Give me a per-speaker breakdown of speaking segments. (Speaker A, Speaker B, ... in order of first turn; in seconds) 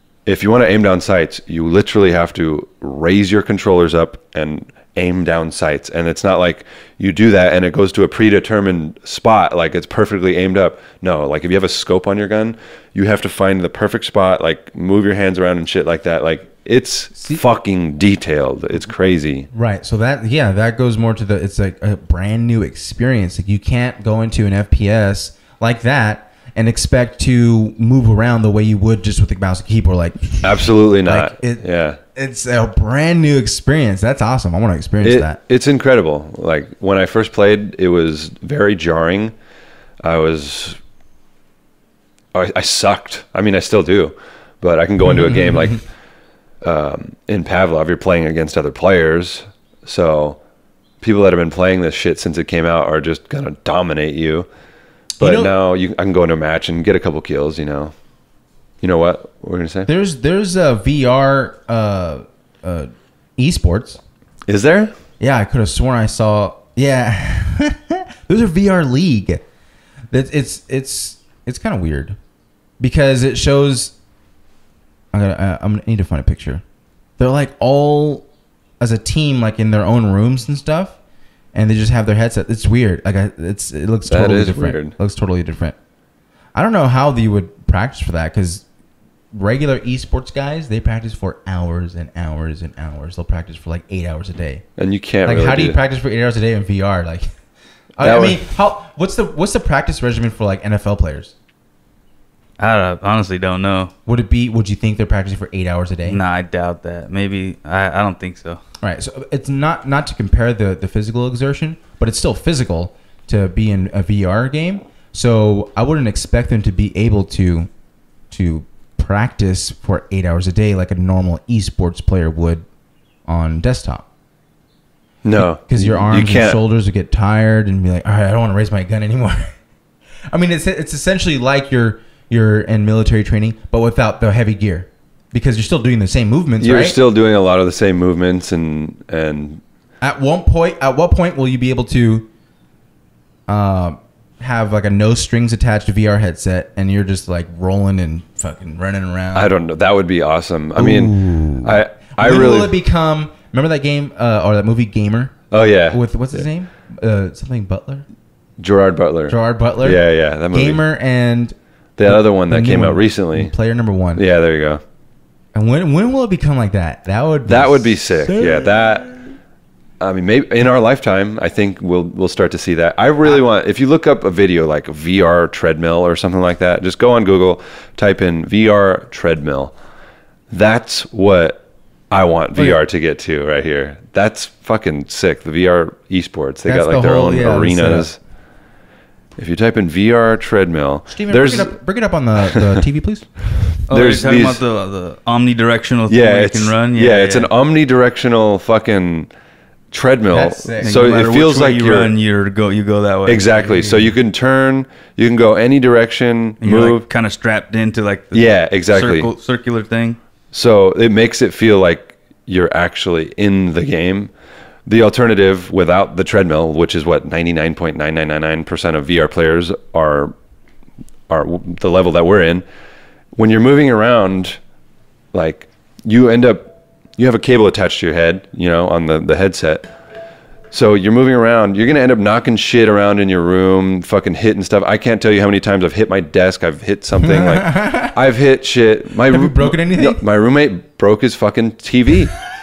Speaker A: 0.3-19.5, 30.4-32.0, 35.0-39.3, 40.0-40.8, 42.3-45.8, 46.6-50.4, 51.0-54.5, 55.2-57.9, 58.8-59.9, 64.5-64.9, 84.1-84.9, 94.8-95.8, 98.0-98.5, 125.2-126.6, 136.6-139.6, 149.3-152.8, 155.5-156.0, 158.6-160.8, 162.0-163.5, 164.2-164.8, 167.5-169.2, 170.0-179.7, 180.5-188.2, 189.4-191.7, 192.5-192.8, 193.9-194.6, 196.1-199.3, 199.9-202.1, 203.3-207.1, 208.3-209.3, 210.5-214.3, 214.9-220.3, 221.3-222.7, 223.3-224.6, 225.3-229.9, 230.7-242.3
Speaker B: 17.2-17.4, 19.5-35.4, 55.2-55.5, 59.9-64.0, 65.2-69.5, 70.1-72.2, 72.8-74.0, 75.1-76.6, 77.2-78.3, 78.8-81.0, 81.5-85.8, 86.5-88.7, 89.3-94.6, 95.2-97.3, 98.0-101.3, 104.1-106.2, 108.8-117.7, 118.3-122.7, 123.3-124.1, 125.4-129.5, 130.3-137.0, 140.0-142.3, 143.5-149.5, 150.8-155.4, 155.9-158.1, 159.3-164.2, 165.5-169.2, 186.7-188.1, 191.1-193.4, 200.3-201.1, 237.2-238.1, 239.3-240.2
Speaker C: 102.6-103.9, 106.1-108.6, 193.9-197.5, 200.8-204.1, 206.6-210.2